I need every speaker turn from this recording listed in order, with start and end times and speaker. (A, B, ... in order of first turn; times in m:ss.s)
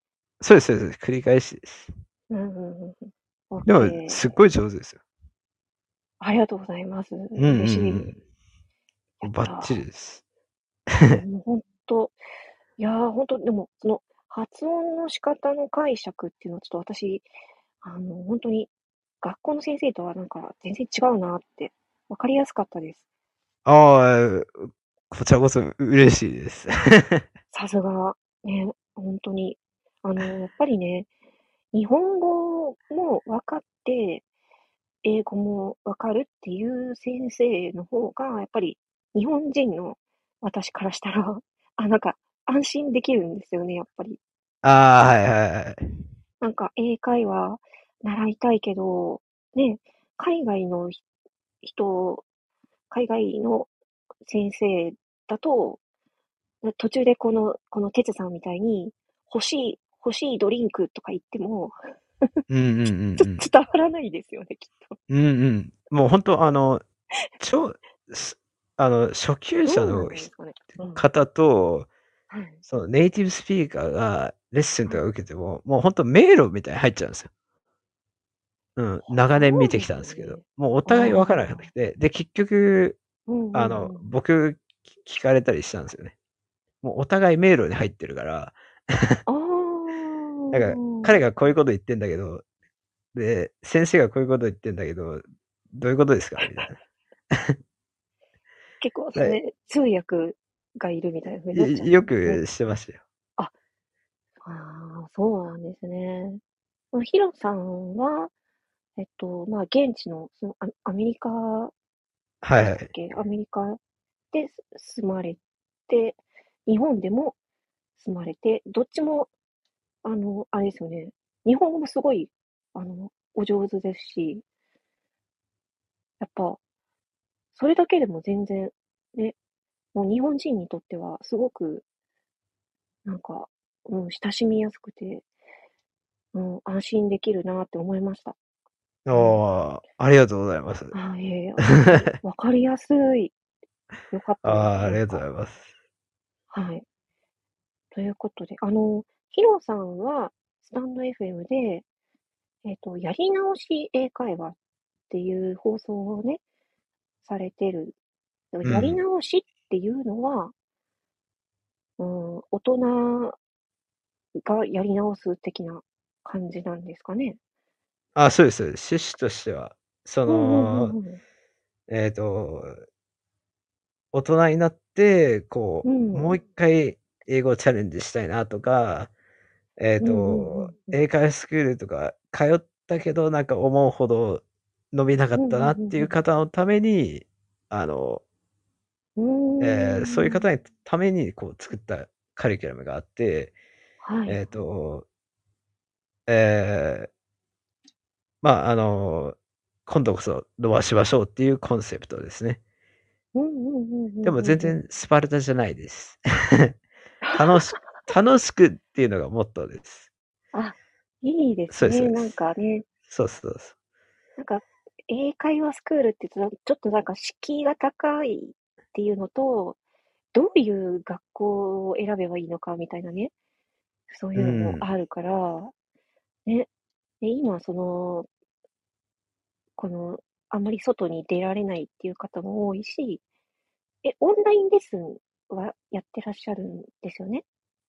0:00.4-0:01.9 A
0:02.3-0:04.2 B
0:03.7-0:05.0 A
0:06.2-0:08.1 B
0:07.4-0:08.2 A
0:09.2-0:09.8 B
0:09.2-0:10.2 A
0:10.9-0:11.2 A
0:11.1-0:12.2 B
0:12.8-0:17.3 B
0:17.8-0:18.7 B
0:19.2-0:23.0 B
0:23.7-0:27.2 A
0:27.5-0:31.1 B
0:31.7-0:34.2 B
0:35.0-0:44.2 B
0:44.6-0:45.8 A
0:46.4-0:51.0 B
0:51.6-0:52.3 B
0:52.9-0:53.7 B
0:54.2-0:55.8 B
0:56.6-1:02.4 B
1:02.5-1:03.4 A
1:03.2-1:05.0 B
1:05.1-1:06.8 A
1:07.4-1:10.3 A
1:09.7-1:11.1 B
1:10.9-1:11.9 A
1:12.3-1:12.6 B
1:12.7-1:17.3 A
1:18.8-1:23.0 A
1:19.1-1:21.7 B
1:23.3-1:24.1 B
1:23.5-1:26.1 A
1:26.8-1:29.2 A
1:29.3-1:31.2 B
1:30.5-1:32.4 A
1:33.1-1:36.8 A
1:37.3-1:37.6 A
1:38.8-1:42.4 B
1:41.5-1:43.0 A
1:44.4-1:46.4 B
1:46.9-1:48.3 B
1:49.0-1:51.7 B
1:52.4-1:52.9 A
1:52.6-1:53.8 B
1:54.3-1:57.4 B
1:58.0-1:59.3 B
2:00.0-2:04.4 B
2:06.2-2:06.6 B
2:07.5-2:09.4 B
2:09.9-2:11.8 B
2:13.0-2:15.2 B
2:16.3-2:18.4 B
2:19.1-2:21.0 A
2:19.1-2:19.4 B
2:20.9-2:23.4 B
2:21.8-2:22.1 A
2:24.1-2:25.2 B
2:24.4-2:25.7 A
2:26.5-2:26.8 B
2:27.9-2:31.9 B
2:32.6-2:34.6 B
2:35.1-2:36.4 B
2:37.2-2:38.0 B
2:38.5-2:40.5 B
2:38.6-2:39.0 A
2:42.0-2:43.4 B
2:44.4-2:47.4 B
2:48.1-2:51.0 A
2:50.3-2:51.2 B
2:51.9-2:52.8 A
2:54.1-2:59.1 A
2:55.8-2:56.4 B
2:59.8-3:08.2 A
3:00.0-3:01.0 B
3:05.4-3:06.1 B
3:09.2-3:10.4 B
3:09.6-3:13.5 A
3:14.0-3:14.4 B
3:14.3-3:15.1 A
3:16.3-3:17.1 A
3:18.4-3:22.6 A
3:23.3-3:24.8 B
3:24.2-3:26.8 A
3:27.2-3:27.8 B
3:27.3-3:30.1 A
3:30.5-3:32.9 B
3:31.7-3:32.4 A
3:33.0-3:33.7 A
3:34.4-3:39.8 B
3:40.3-3:43.3 B
3:44.1-3:45.7 B
3:44.4-3:44.8 A
3:47.2-3:48.3 B
3:49.8-3:53.2 B
3:54.0-3:57.4 B